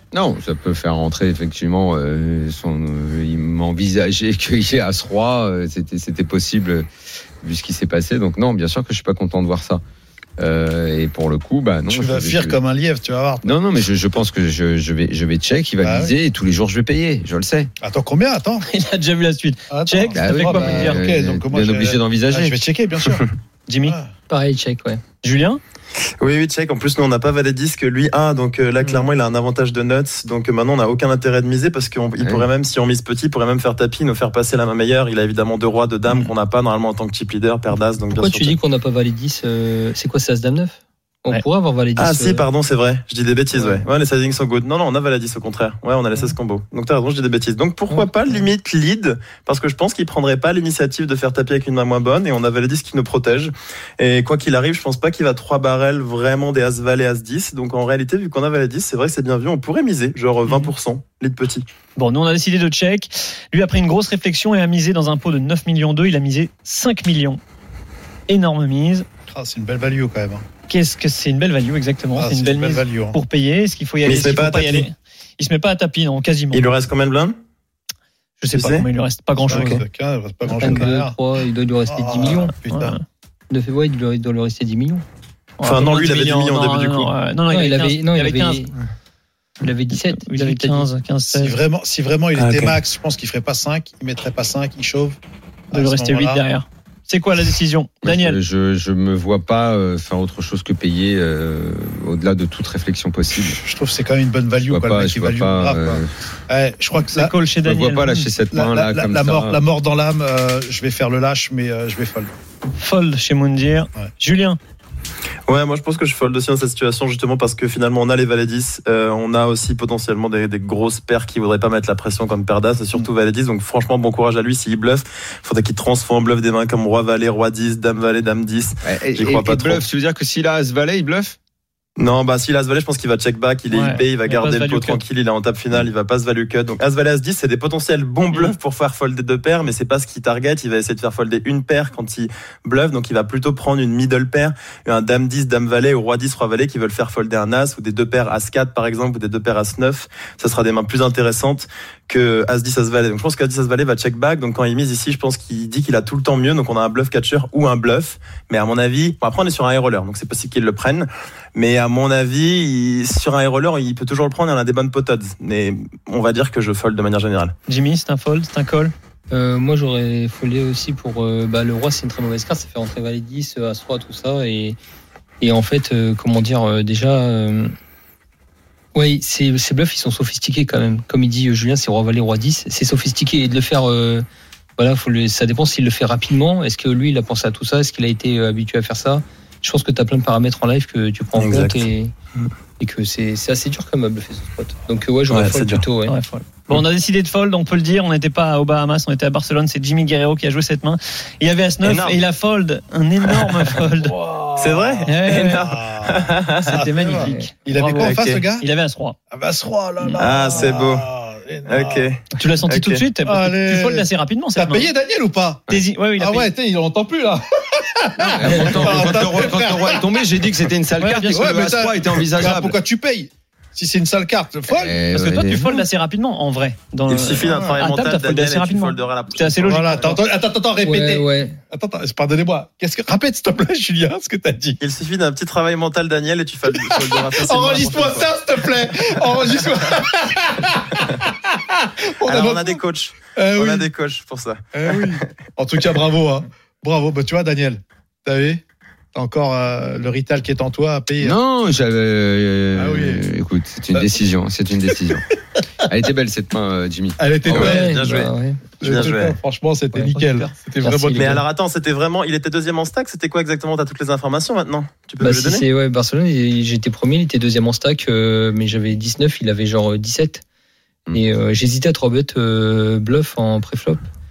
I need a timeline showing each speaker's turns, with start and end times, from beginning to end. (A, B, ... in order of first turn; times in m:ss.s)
0:00.1-0:06.9 A
0:07.4-0:09.8 A
0:10.4-0:12.6 A
0:11.9-0:13.5 B
0:13.4-0:17.7 A
0:15.8-0:16.2 B
0:17.8-0:18.6 B
0:18.6-0:21.0 C
0:19.7-0:23.2 B
0:20.1-0:22.6 A
0:23.7-0:24.0 C
0:23.8-0:24.1 B
0:24.3-0:25.0 D
0:25.2-0:25.6 C
0:26.2-0:38.6 E
0:32.2-0:32.5 A
0:38.1-0:42.5 D
0:42.0-1:01.6 E
0:43.5-0:43.8 D
1:00.4-1:00.7 C
1:02.0-1:07.4 C
1:08.3-1:09.1 C
1:09.3-1:10.4 B
1:10.7-1:16.7 C
1:12.2-1:13.2 B
1:14.0-1:14.9 E
1:16.5-1:17.4 E
1:18.4-1:19.8 C
1:18.5-1:18.9 E
1:19.4-1:21.2 B
1:20.5-1:22.5 D
1:21.9-1:23.0 B
1:22.7-1:23.0 C
1:23.5-1:25.0 D
1:25.6-1:28.7 C
1:25.6-1:27.1 E
1:27.5-1:28.7 D
1:29.6-1:30.9 D
1:30.0-1:31.6 C
1:31.3-1:35.2 B
1:32.4-1:32.8 E
1:35.7-1:36.4 B
1:35.7-1:38.4 C
1:38.0-1:43.6 A
1:43.4-1:47.3 B
1:44.7-1:46.1 A
1:47.1-1:48.3 C
1:47.6-1:49.6 A
1:48.5-1:52.3 B
1:52.7-1:54.6 C
1:55.5-2:09.8 E
2:08.8-2:11.4 A
2:12.0-2:47.5 E
2:13.7-2:15.0 C
2:47.7-2:48.9 C
2:49.3-2:54.8 D
2:55.4-2:57.7 D
2:58.9-3:04.2 D
3:04.8-3:12.1 D
3:11.3-3:11.8 E
3:12.8-3:16.2 D
3:15.3-3:15.8 E
3:16.0-3:24.2 C
3:21.8-3:22.2 E
3:23.9-3:28.7 B
3:24.6-3:26.8 E
3:25.1-3:25.6 C
3:26.6-3:29.2 C
3:27.9-3:28.4 E
3:29.3-3:32.0 B
3:30.2-3:31.1 E
3:31.7-3:33.0 E
3:32.3-3:34.9 C
3:33.2-3:40.5 B
3:35.7-3:36.5 C
3:38.3-3:42.7 A
3:41.0-3:41.4 C
3:41.2-3:45.0 B
3:44.7-3:45.7 A
3:45.1-3:50.2 C
3:47.1-3:49.9 E
3:47.4-3:47.8 B
3:49.6-3:54.8 B
3:50.8-3:51.6 D
3:54.8-3:58.3 E
3:56.8-4:03.9 B
4:02.2-4:05.2 E
4:04.7-4:08.6 B
4:09.1-4:11.4 B
4:11.2-4:15.3 A
4:12.7-4:13.2 B
4:14.9-4:15.6 B
4:15.9-4:17.7 A
4:17.2-4:18.0 B
4:17.5-4:19.4 E
4:17.6-4:18.6 D
4:18.8-4:21.3 B
4:19.9-4:21.4 D
4:21.1-4:25.6 E
4:25.2-4:30.4 D
4:31.1-4:34.0 D